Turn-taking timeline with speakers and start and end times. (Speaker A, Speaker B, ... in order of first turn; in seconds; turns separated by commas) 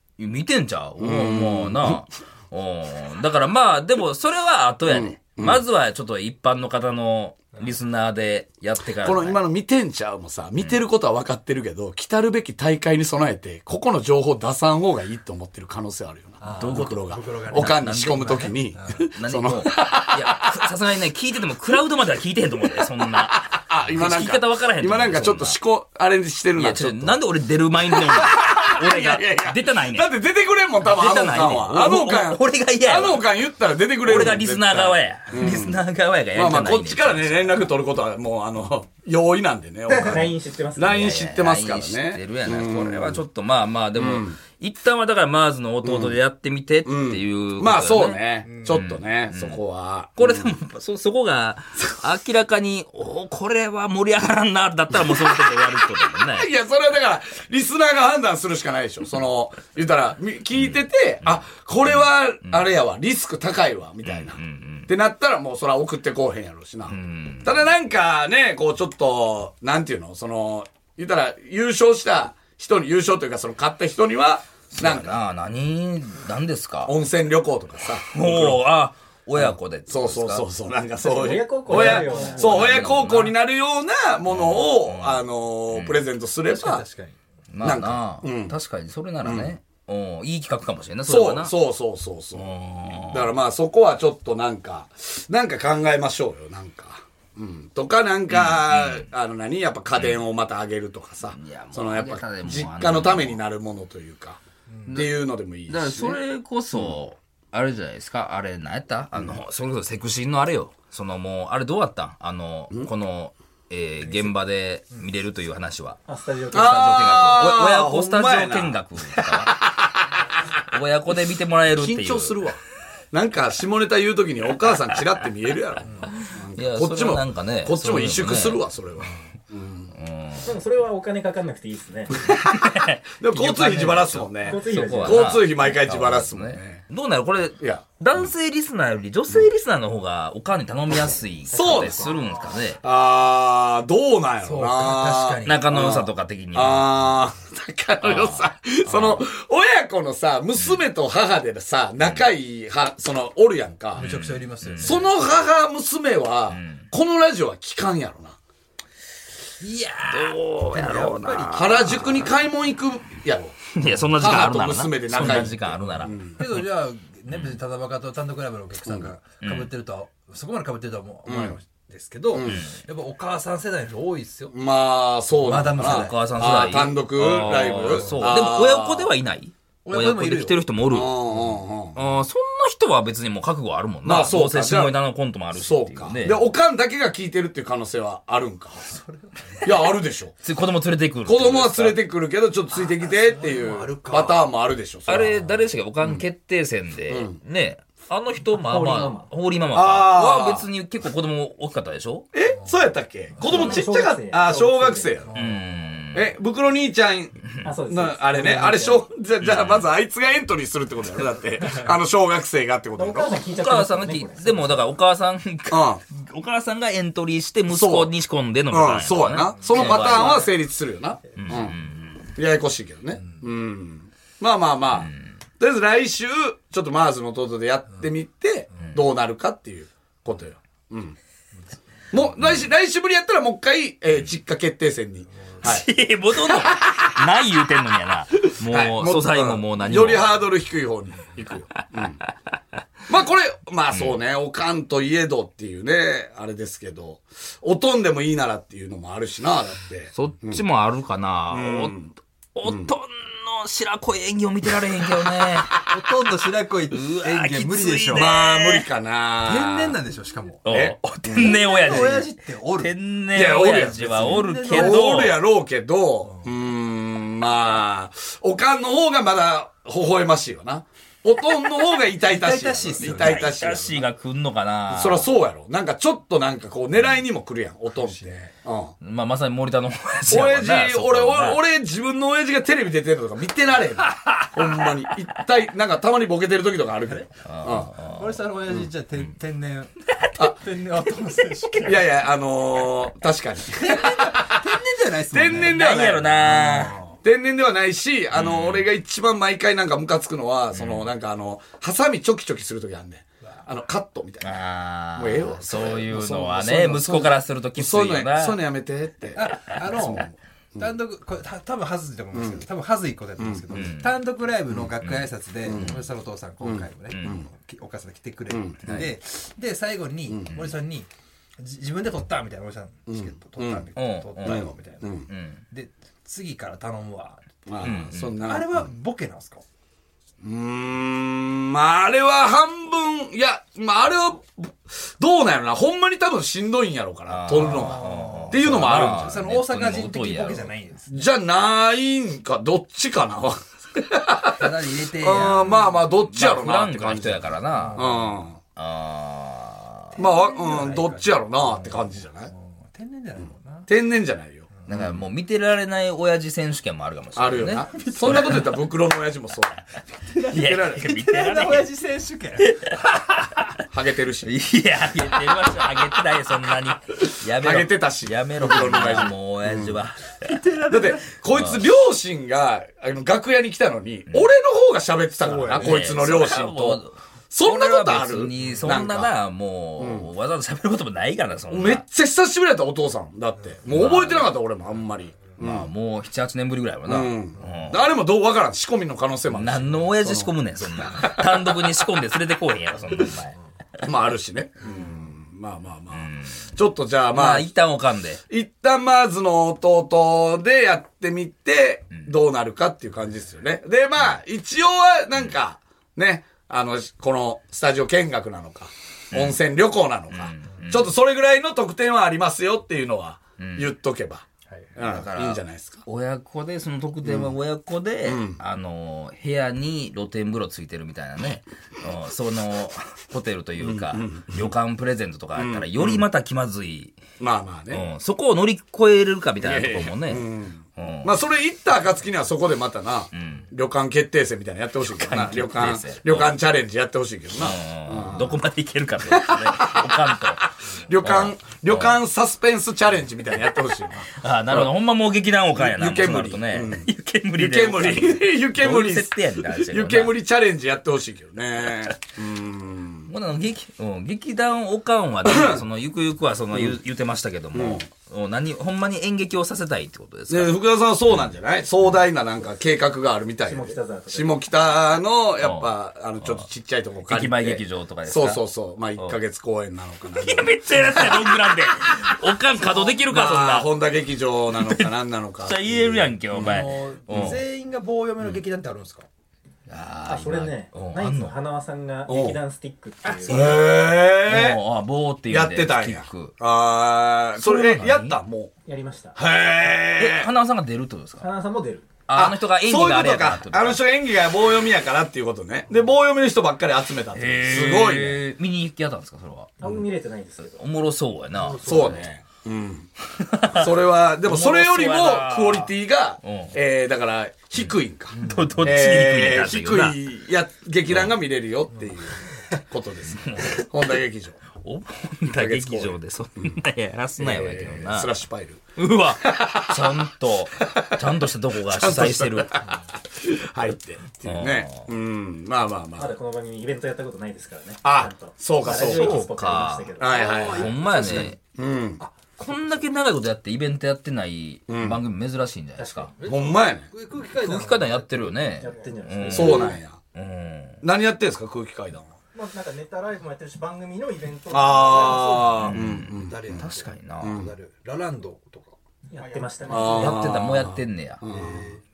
Speaker A: 0.2-9.4, Speaker B: 1.0-2.0, Speaker B: 4.9-5.6, Speaker B: 9.0-20.4, Speaker A: 10.6-10.8, Speaker C: 16.4-19.0, Speaker A: 16.5-18.6, Speaker A: 19.1-25.6, Speaker B: 23.2-27.2, Speaker A: 26.5-30.1, Speaker B: 27.8-35.8, Speaker A: 30.8-33.4, Speaker A: 34.0-37.6, Speaker B: 36.3-43.2, Speaker D: 39.9-40.9, Speaker A: 40.8-49.6, Speaker B: 43.9-44.4, Speaker B: 45.8-46.2, Speaker B: 46.8-50.5, Speaker A: 50.1-56.5, Speaker B: 56.2-75.2, Speaker A: 60.7-62.7, Speaker A: 64.0-64.9, Speaker A: 66.9-67.6, Speaker A: 74.7-76.9, Speaker B: 76.8-78.6, Speaker A: 78.1-80.5, Speaker B: 79.3-86.8, Speaker D: 81.0-82.5, Speaker A: 81.7-83.4, Speaker A: 84.3-86.0, Speaker C: 86.5-87.2, Speaker A: 87.5-91.5, Speaker B: 87.6-88.5, Speaker B: 89.2-89.5, Speaker B: 91.0-106.2, Speaker A: 92.3-93.3, Speaker A: 98.3-99.1, Speaker A: 99.9-100.2, Speaker A: 101.3-103.4, Speaker A: 104.9-116.0, Speaker D: 116.0-117.5, Speaker B: 116.5-118.8, Speaker A: 116.5-119.6, Speaker B: 119.4-120.0, Speaker A: 120.7-122.4, Speaker B: 121.7-122.6, Speaker B: 123.1-129.9, Speaker A: 126.5-128.6, Speaker A: 129.9-130.6, Speaker D: 130.4-132.1, Speaker A: 132.2-142.8, Speaker B: 132.2-132.7, Speaker B: 133.2-136.8, Speaker D: 134.4-135.4, Speaker B: 137.6-138.0, Speaker B: 141.5-142.1, Speaker D: 141.6-142.1, Speaker B: 142.8-154.1, Speaker C: 144.4-145.7, Speaker A: 145.4-147.1, Speaker A: 148.0-149.3, Speaker A: 150.6-150.8, Speaker A: 152.0-152.2, Speaker A: 153.9-155.1, Speaker C: 154.0-155.0, Speaker B: 154.8-158.4, Speaker A: 156.5-156.9, Speaker C: 159.6-162.3, Speaker A: 160.0-161.8, Speaker B: 161.5-163.6, Speaker A: 163.7-166.5, Speaker B: 164.2-166.4, Speaker C: 165.2-165.5, Speaker C: 166.4-174.5, Speaker A: 167.3-167.6, Speaker B: 168.8-169.1, Speaker A: 169.4-169.7, Speaker B: 171.2-171.6, Speaker B: 172.3-172.7, Speaker A: 172.4-172.8, Speaker B: 174.5-179.1, Speaker C: 175.4-176.2, Speaker A: 175.8-181.4, Speaker C: 177.8-178.2, Speaker C: 179.8-180.6, Speaker B: 180.9-182.0, Speaker A: 181.9-186.4, Speaker B: 184.0-185.0, Speaker B: 185.5-188.9, Speaker C: 188.8-189.7, Speaker B: 189.6-190.3, Speaker A: 190.4-192.0, Speaker B: 191.2-195.5, Speaker C: 192.8-194.5, Speaker A: 195.1-202.3, Speaker B: 197.1-197.4, Speaker D: 198.5-199.2, Speaker B: 199.7-200.7, Speaker B: 202.3-205.3, Speaker D: 203.4-205.2, Speaker C: 205.3-205.6, Speaker A: 205.3-206.3, Speaker B: 206.1-213.3, Speaker D: 207.6-209.1, Speaker A: 209.4-209.9, Speaker D: 212.9-214.8, Speaker A: 213.4-220.5, Speaker B: 215.7-216.0, Speaker B: 217.7-218.1, Speaker B: 218.7-221.8, Speaker C: 219.6-220.4, Speaker A: 221.3-222.3, Speaker B: 222.3-231.2, Speaker A: 224.9-225.3, Speaker B: 232.1-235.9, Speaker A: 235.6-240.3, Speaker B: 236.6-237.1, Speaker B: 238.7-242.2, Speaker B: 243.1-250.6, Speaker A: 243.9-244.2, Speaker A: 250.1-252.0, Speaker B: 251.5-252.9, Speaker A: 252.5-255.8, Speaker C: 255.9-258.3, Speaker A: 256.9-258.9, Speaker B: 258.1-260.0, Speaker C: 259.4-260.6, Speaker A: 260.6-265.4, Speaker B: 260.7-262.1, Speaker C: 261.3-262.9, Speaker B: 263.3-274.0, Speaker C: 263.7-265.3, Speaker C: 272.2-273.5, Speaker A: 273.0-275.3, Speaker B: 274.9-278.9, Speaker C: 277.9-278.5, Speaker A: 279.0-281.6, Speaker B: 280.3-287.9, Speaker C: 287.1-292.0, Speaker A: 287.4-289.3, Speaker B: 291.8-294.5, Speaker C: 293.7-295.8, Speaker B: 295.3-296.7, Speaker A: 295.4-297.0, Speaker C: 296.4-297.1, Speaker B: 297.2-304.6, Speaker A: 298.3-298.9, Speaker A: 300.7-301.1, Speaker A: 304.4-308.6, Speaker B: 305.1-310.9, Speaker C: 309.3-327.4, Speaker B: 312.3-312.6, Speaker B: 313.4-313.9, Speaker A: 313.7-314.2, Speaker A: 315.0-316.0, Speaker B: 315.6-316.0, Speaker B: 316.6-317.5, Speaker A: 317.1-317.4, Speaker B: 318.5-319.1, Speaker B: 320.3-320.6, Speaker B: 323.1-323.9, Speaker A: 323.9-324.7, Speaker B: 324.4-325.3, Speaker A: 325.3-325.6, Speaker B: 327.7-328.9, Speaker A: 327.8-328.4, Speaker C: 328.4-329.6, Speaker B: 330.4-339.4, Speaker A: 337.3-340.7, Speaker C: 337.5-341.2, Speaker B: 341.1-348.6, Speaker C: 344.5-345.9, Speaker A: 345.6-348.1, Speaker C: 347.7-348.3, Speaker A: 348.8-350.2, Speaker B: 350.2-352.5, Speaker C: 350.2-353.9, Speaker B: 353.9-355.2, Speaker A: 354.9-358.8, Speaker B: 357.3-359.8, Speaker C: 358.0-358.7, Speaker C: 360.3-362.7, Speaker A: 360.5-361.9, Speaker B: 360.5-361.1, Speaker A: 362.6-363.7, Speaker B: 363.9-364.6, Speaker A: 364.4-370.6, Speaker B: 367.6-370.0, Speaker C: 370.4-371.4, Speaker B: 370.9-379.3, Speaker A: 371.5-371.8, Speaker C: 375.4-376.0, Speaker A: 375.7-382.0, Speaker C: 378.6-378.9, Speaker B: 380.0-380.3, Speaker B: 381.7-385.9, Speaker A: 383.9-384.5, Speaker A: 385.6-388.1, Speaker B: 387.1-391.8, Speaker A: 389.5-393.6, Speaker B: 394.0-397.7, Speaker A: 396.1-396.7, Speaker A: 397.3-398.4, Speaker B: 398.5-416.1, Speaker A: 409.3-409.6, Speaker A: 410.3-411.1, Speaker A: 413.6-413.9, Speaker A: 415.0-427.2, Speaker B: 417.2-417.5, Speaker B: 418.2-418.6, Speaker B: 423.8-424.7, Speaker B: 425.6-426.2, Speaker B: 427.4-428.1, Speaker A: 427.9-430.4, Speaker B: 429.6-438.6, Speaker A: 431.0-431.3, Speaker A: 433.3-433.7, Speaker A: 435.0-436.6, Speaker A: 437.6-440.7, Speaker B: 439.3-444.9, Speaker A: 441.2-442.2, Speaker A: 444.4-450.3, Speaker B: 445.7-453.3, Speaker A: 453.3-460.7, Speaker B: 455.4-455.8, Speaker B: 457.7-458.1, Speaker B: 460.5-471.4, Speaker D: 463.6-464.6, Speaker A: 465.6-466.6, Speaker A: 467.2-468.6, Speaker A: 470.3-473.9, Speaker B: 473.1-476.7, Speaker A: 474.8-477.6, Speaker C: 476.5-479.3, Speaker A: 479.9-481.5, Speaker D: 480.2-483.8, Speaker B: 482.3-482.6, Speaker B: 483.4-484.8, Speaker A: 484.4-486.5, Speaker B: 485.5-488.7, Speaker A: 487.6-488.4, Speaker D: 488.8-489.4, Speaker B: 489.4-490.5, Speaker A: 490.2-491.5, Speaker D: 491.4-492.1, Speaker A: 492.3-494.0, Speaker B: 492.3-498.4, Speaker A: 497.3-499.9, Speaker D: 499.8-500.8, Speaker A: 500.6-502.3, Speaker C: 501.5-502.2, Speaker B: 501.8-503.1, Speaker A: 503.4-503.9, Speaker B: 503.7-514.6, Speaker A: 504.4-506.8, Speaker A: 507.8-510.2, Speaker C: 508.3-508.9, Speaker A: 511.1-511.4, Speaker A: 513.4-513.8, Speaker A: 514.8-518.3, Speaker B: 515.5-516.7, Speaker B: 517.4-518.8, Speaker A: 519.0-522.7, Speaker B: 519.4-520.1, Speaker B: 521.9-526.3, Speaker A: 524.4-525.0, Speaker D: 526.2-530.3, Speaker B: 528.0-529.4, Speaker A: 528.8-530.2, Speaker B: 530.2-531.0, Speaker C: 530.2-531.6, Speaker A: 530.7-531.6, Speaker B: 531.8-532.2, Speaker C: 532.2-532.5, Speaker A: 532.6-536.3, Speaker B: 534.9-535.2, Speaker D: 536.0-536.3, Speaker C: 536.4-539.1, Speaker B: 536.4-537.1, Speaker A: 537.4-541.0, Speaker D: 538.8-540.0, Speaker B: 539.5-540.2, Speaker B: 541.0-542.3, Speaker D: 542.5-545.6, Speaker B: 544.7-546.9, Speaker C: 545.0-550.4, Speaker A: 545.8-547.6, Speaker B: 547.4-547.7, Speaker D: 549.3-550.3, Speaker B: 549.9-551.9, Speaker A: 550.1-551.4, Speaker C: 551.5-552.0